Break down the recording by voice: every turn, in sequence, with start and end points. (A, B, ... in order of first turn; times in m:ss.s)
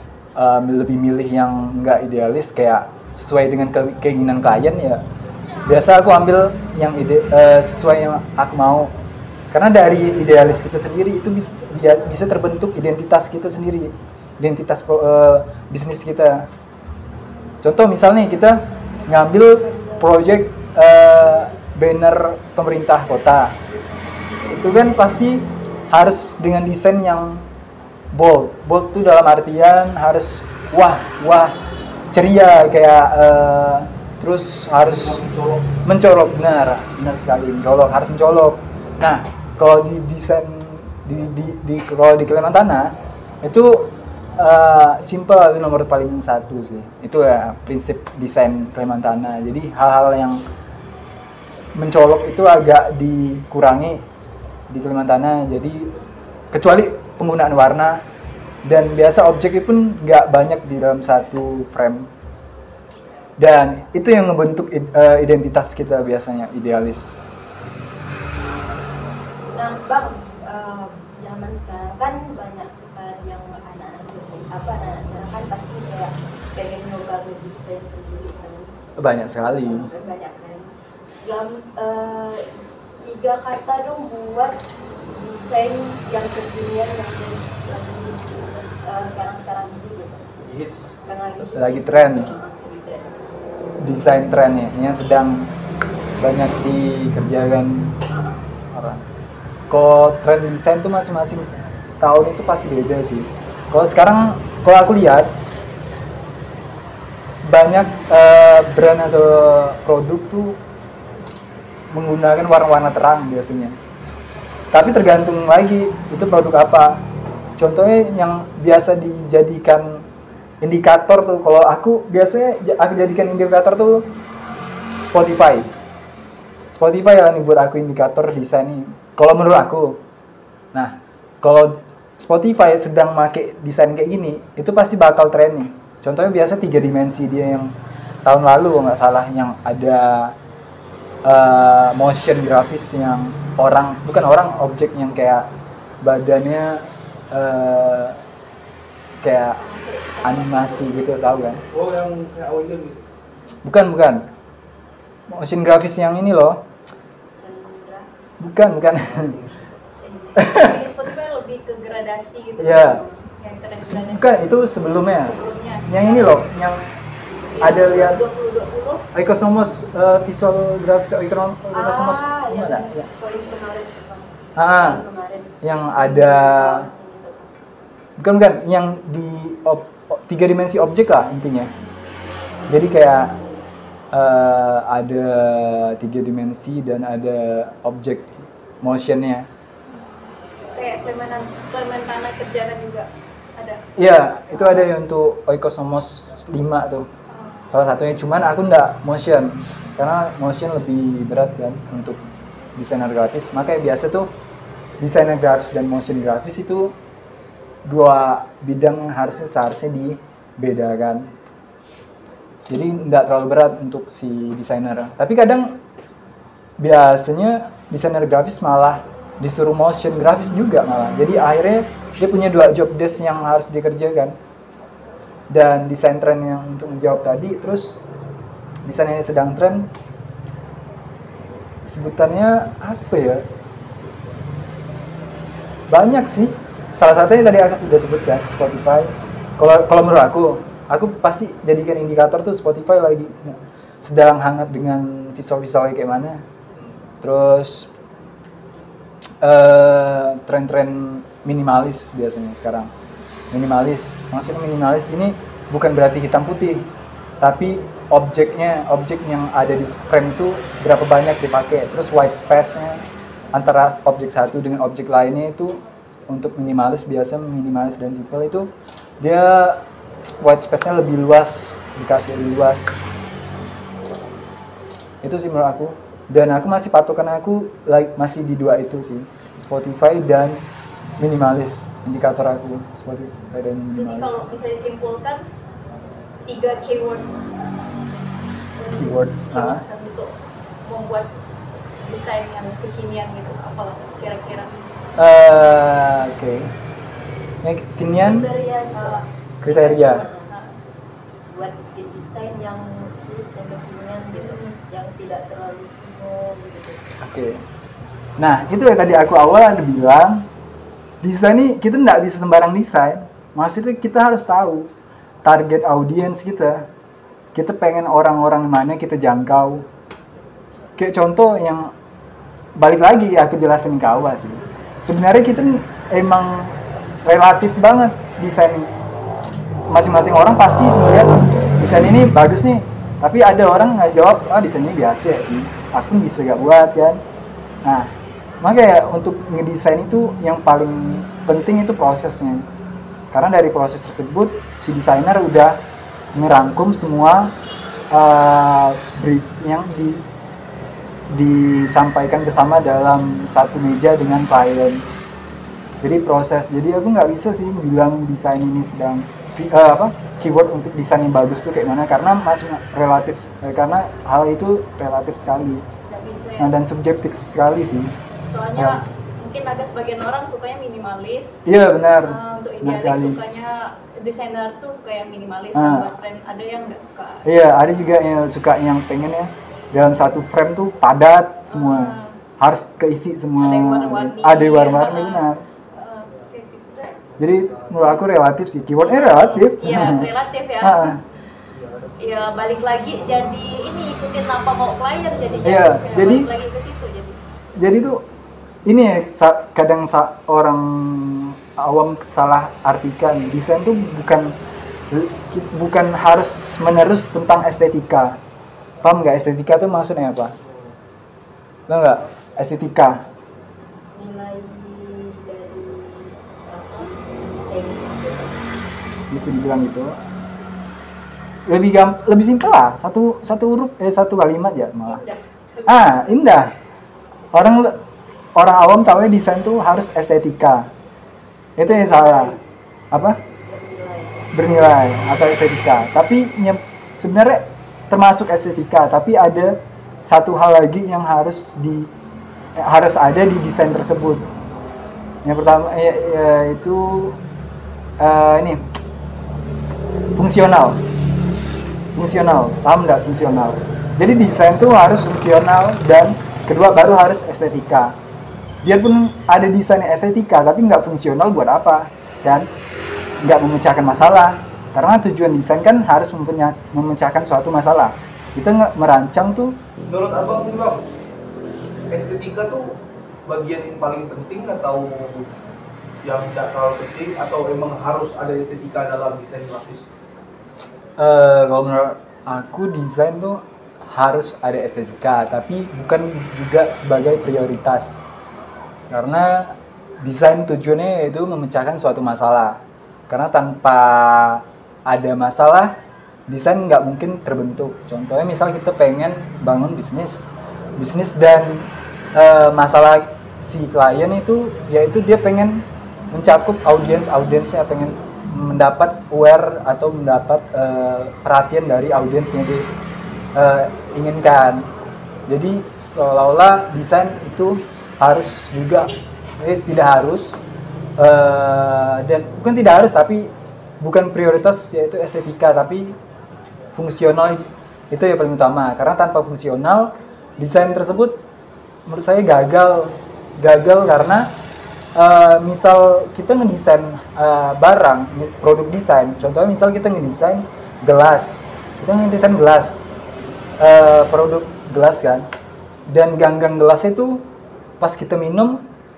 0:00.4-0:05.0 A
0:05.6-0:08.9 A
0:09.5-0:16.5 A
0:17.6-0:23.6 A
0:24.5-0:27.5 A
0:28.1-0:31.6 A
0:32.1-0:35.2 A
0:34.8-0:35.7 B
0:35.8-0:50.4 A
0:51.8-0:54.0 A
0:54.7-0:55.9 A
0:56.5-0:58.0 A
0:58.7-1:02.1 A
1:03.4-1:07.2 A
1:09.6-1:18.8 C
1:19.0-1:19.9 A
1:19.5-1:20.7 C
1:21.2-1:22.5 C
1:23.0-1:24.6 C
1:25.2-1:30.3 C
1:30.4-1:31.0 B
1:31.0-1:33.2 C
1:31.5-1:32.3 A
1:33.8-1:35.5 A
1:36.2-1:38.0 A
1:38.7-1:39.0 A
1:39.7-1:41.5 A
1:42.0-1:45.3 A
1:47.5-1:50.6 A
1:51.9-1:53.8 A
1:54.7-1:57.0 A
1:57.6-2:00.0 A
2:00.6-2:04.0 A
2:05.0-2:05.7 A
2:06.7-2:10.0 A
2:10.7-2:17.7 A
2:18.3-2:20.3 A
2:21.3-2:25.5 A
2:26.0-2:28.2 A
2:29.2-2:29.6 A
2:29.6-2:31.0 C
2:30.2-2:31.6 A
2:31.7-2:33.1 B
2:33.6-2:34.3 A
2:35.3-2:36.6 A
2:37.3-2:38.1 C
2:38.4-2:39.3 A
2:39.0-2:39.7 B
2:40.0-2:40.7 C
2:40.4-2:40.8 A
2:40.5-2:46.4 D
2:42.6-2:43.0 A
2:43.8-2:45.4 A
2:45.9-2:46.9 A
2:47.5-2:49.1 D
2:47.6-2:48.2 A
2:49.1-2:53.1 A
2:51.7-2:57.7 C
2:54.6-2:55.0 A
2:55.6-2:56.9 A
2:58.2-3:01.7 A
3:02.7-3:03.4 A
3:04.1-3:09.5 A
3:10.7-3:13.9 D
3:14.0-3:17.1 A
3:14.5-3:14.9 D
3:17.3-3:17.7 D
3:17.7-3:22.2 A
3:22.8-3:24.3 A
3:25.0-3:26.9 A
3:27.9-3:31.3 A
3:32.7-3:35.8 A
3:36.8-3:44.4 A
3:45.5-3:48.0 A
3:48.9-3:49.9 A
3:51.9-3:53.4 A
3:55.9-4:06.4 A
4:07.2-4:07.9 A
4:09.4-4:12.9 A
4:13.5-4:16.8 A
4:17.4-4:28.7 A
4:29.2-4:33.0 A
4:35.2-4:40.6 A
4:41.2-4:44.5 A
4:44.0-4:45.4 D
4:46.5-4:47.6 D
4:48.8-4:51.3 D
4:48.9-4:49.8 A
4:52.0-4:54.7 D
4:55.2-4:56.7 A
4:57.6-4:58.5 A
4:58.1-5:00.5 C
4:58.9-5:00.8 D
4:59.6-5:00.2 A
5:01.5-5:07.1 C
5:04.3-5:04.8 D
5:07.2-5:07.6 A
5:08.4-5:10.5 A
5:11.2-5:14.9 A
5:15.4-5:16.9 A
5:17.6-5:19.9 A
5:21.0-5:21.9 A
5:22.8-5:28.9 A
5:29.9-5:37.2 A
5:37.8-5:38.1 A
5:38.6-5:42.7 A
5:43.3-5:45.8 A
5:46.4-5:47.5 A
5:48.1-5:50.2 A
5:51.3-5:55.0 A
5:56.0-6:05.8 A
6:06.1-6:06.7 D
6:06.6-6:08.1 A
6:08.5-6:11.6 D
6:11.7-6:13.4 A
6:12.2-6:17.5 D
6:15.8-6:16.1 A
6:17.4-6:25.6 A
6:21.7-6:22.4 D
6:23.6-6:27.2 D
6:27.4-6:28.2 B
6:27.4-6:30.3 A
6:29.0-6:31.2 D
6:30.8-6:31.2 A
6:31.7-6:32.5 B
6:32.2-6:37.4 D
6:35.6-6:36.5 A
6:37.8-6:38.2 A
6:38.9-6:44.6 A
6:45.1-6:48.4 A
6:49.0-6:50.6 A
6:50.7-6:50.9 B
6:51.9-6:53.2 A
6:54.1-6:58.6 C
6:59.3-7:00.2 A
7:01.7-7:05.2 A
7:05.1-7:05.4 D
7:05.9-7:06.7 A
7:07.5-7:08.0 A
7:08.6-7:10.9 A
7:11.8-7:12.6 A
7:11.9-7:12.6 C
7:13.1-7:13.4 A
7:13.4-7:14.5 C
7:14.5-7:22.1 A
7:22.8-7:24.5 A
7:25.4-7:27.4 A
7:28.2-7:28.8 A
7:30.4-7:31.0 A
7:32.2-7:38.2 A
7:38.8-7:42.7 A
7:43.4-7:49.8 A
7:50.1-7:51.1 B
7:52.1-7:55.5 B
7:56.2-8:00.1 B
8:01.2-8:08.2 A
8:09.1-8:15.9 A
8:16.5-8:32.9 A
8:33.6-8:34.9 A
8:35.5-8:40.6 A
8:41.2-8:46.2 A
8:47.0-8:51.4 A
8:52.1-8:54.5 A
8:55.2-9:03.1 A
9:03.8-9:05.5 A
9:06.1-9:07.4 A
9:08.0-9:08.8 A